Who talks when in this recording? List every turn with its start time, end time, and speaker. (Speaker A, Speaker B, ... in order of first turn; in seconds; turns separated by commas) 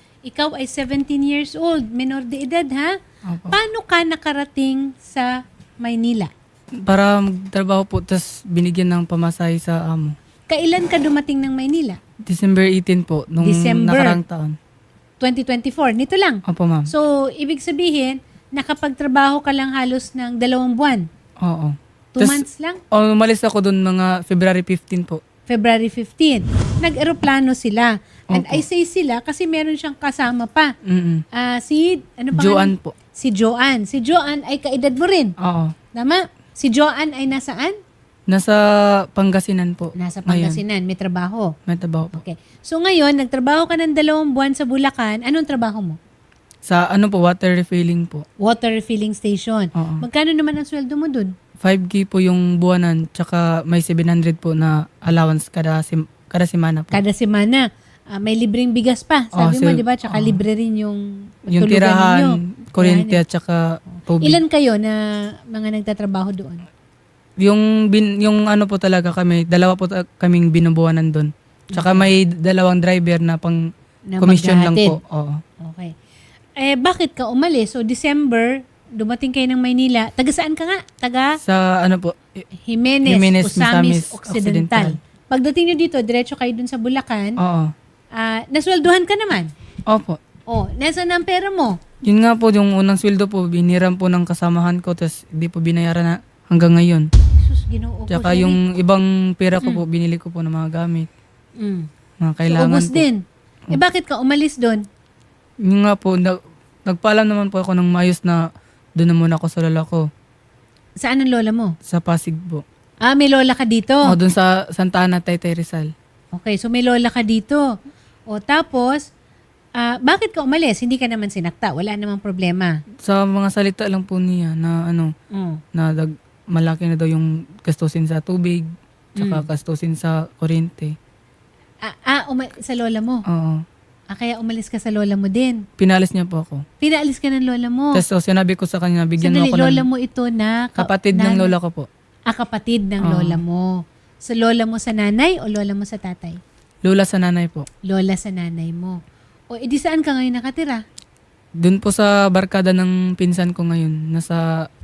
Speaker A: 0.2-2.9, Speaker B: 3.3-3.6, Speaker A: 3.5-6.3, Speaker B: 6.8-10.1, Speaker A: 10.5-12.0, Speaker B: 12.3-14.5, Speaker A: 13.4-14.2, Speaker A: 15.2-21.0, Speaker B: 16.5-16.9, Speaker B: 21.4-25.2, Speaker A: 22.1-22.8, Speaker A: 25.5-30.7, Speaker B: 28.3-28.6, Speaker B: 30.8-31.2, Speaker A: 31.3-35.3, Speaker B: 32.3-32.9, Speaker B: 35.4-35.7, Speaker A: 36.0-37.8, Speaker B: 38.3-40.6, Speaker A: 40.0-41.5, Speaker B: 41.7-42.2, Speaker A: 42.1-46.0, Speaker B: 46.6-48.2, Speaker A: 48.4-51.3, Speaker B: 49.7-50.0, Speaker B: 51.6-57.0, Speaker A: 56.9-61.0, Speaker B: 59.3-60.4, Speaker B: 61.5-64.4, Speaker A: 61.5-63.2, Speaker A: 64.2-65.0, Speaker A: 65.5-66.6, Speaker B: 67.4-73.6, Speaker A: 71.7-72.1, Speaker A: 74.1-75.0, Speaker B: 74.2-75.4, Speaker A: 75.6-75.9, Speaker A: 76.6-81.3, Speaker B: 81.4-82.5, Speaker A: 82.6-87.4, Speaker B: 83.0-85.0, Speaker B: 87.4-87.7, Speaker A: 88.1-89.5, Speaker B: 89.9-90.2, Speaker A: 90.5-91.8, Speaker B: 92.0-97.1, Speaker A: 97.4-98.6, Speaker B: 98.1-101.1, Speaker A: 101.6-101.9, Speaker B: 102.2-103.0, Speaker A: 102.5-104.8, Speaker B: 105.7-106.3, Speaker B: 106.9-108.4, Speaker B: 109.0-110.0, Speaker A: 111.0-111.7, Speaker B: 111.9-112.6, Speaker A: 113.0-114.1, Speaker B: 114.0-115.9, Speaker A: 116.3-117.6, Speaker A: 118.3-119.0, Speaker A: 119.8-122.7, Speaker B: 123.0-125.1, Speaker A: 125.3-125.6, Speaker B: 125.7-128.7, Speaker B: 129.2-130.9, Speaker A: 129.2-129.4, Speaker A: 131.8-133.2, Speaker B: 133.3-133.6, Speaker A: 134.1-135.6, Speaker B: 135.8-136.6, Speaker A: 136.8-138.0, Speaker B: 137.9-139.8, Speaker A: 139.2-141.5, Speaker B: 140.8-141.9, Speaker A: 142.3-143.7, Speaker B: 143.0-143.4, Speaker A: 144.2-146.4, Speaker B: 146.8-147.7, Speaker A: 147.9-149.0, Speaker A: 149.5-150.8, Speaker B: 151.6-154.4